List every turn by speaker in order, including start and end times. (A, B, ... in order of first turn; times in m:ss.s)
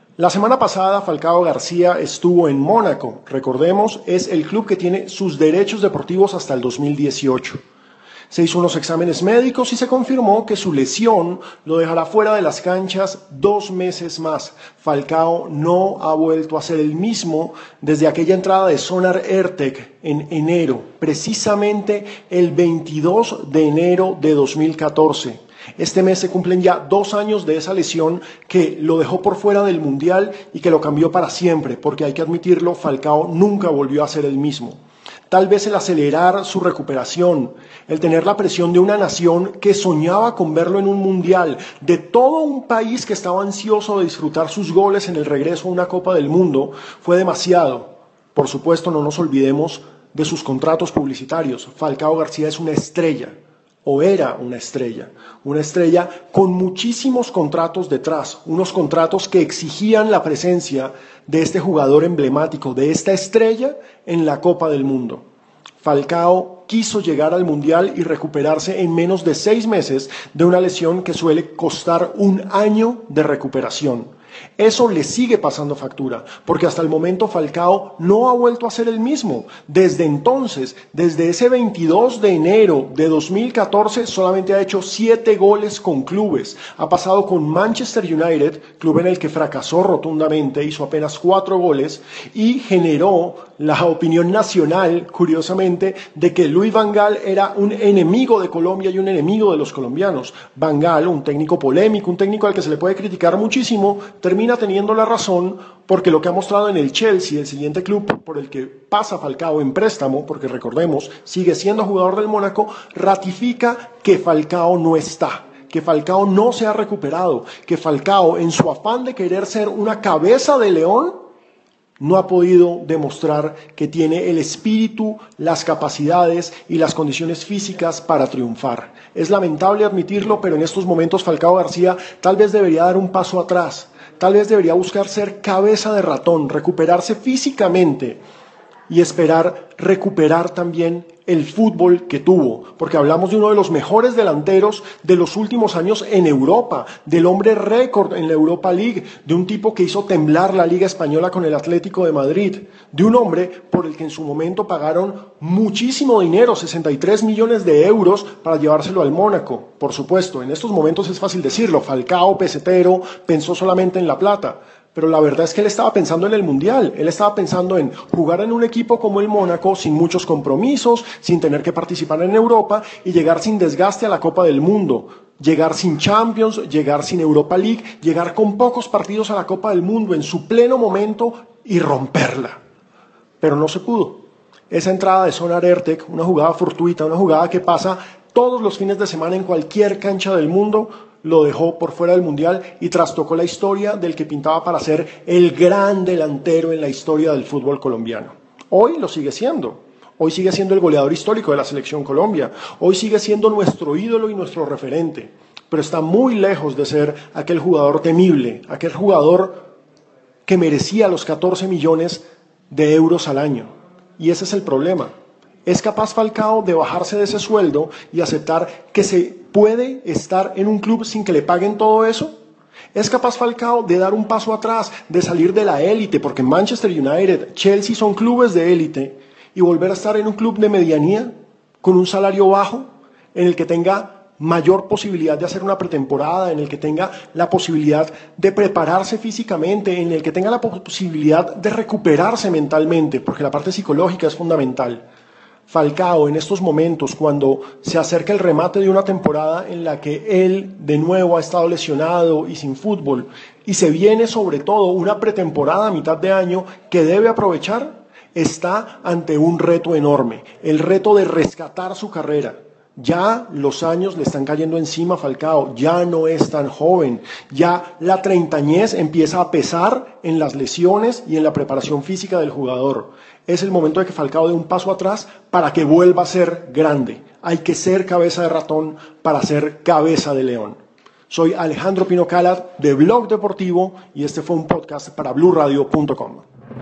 0:00.2-0:07.6 A
0:08.3-1:05.2 A
1:05.8-2:01.2 A
2:02.0-2:18.2 A
2:18.9-3:02.6 A
3:03.4-3:29.6 A
3:30.4-3:35.1 A
3:35.6-3:42.4 A
3:42.9-4:05.0 A
4:05.7-4:40.8 A
4:41.3-4:46.4 A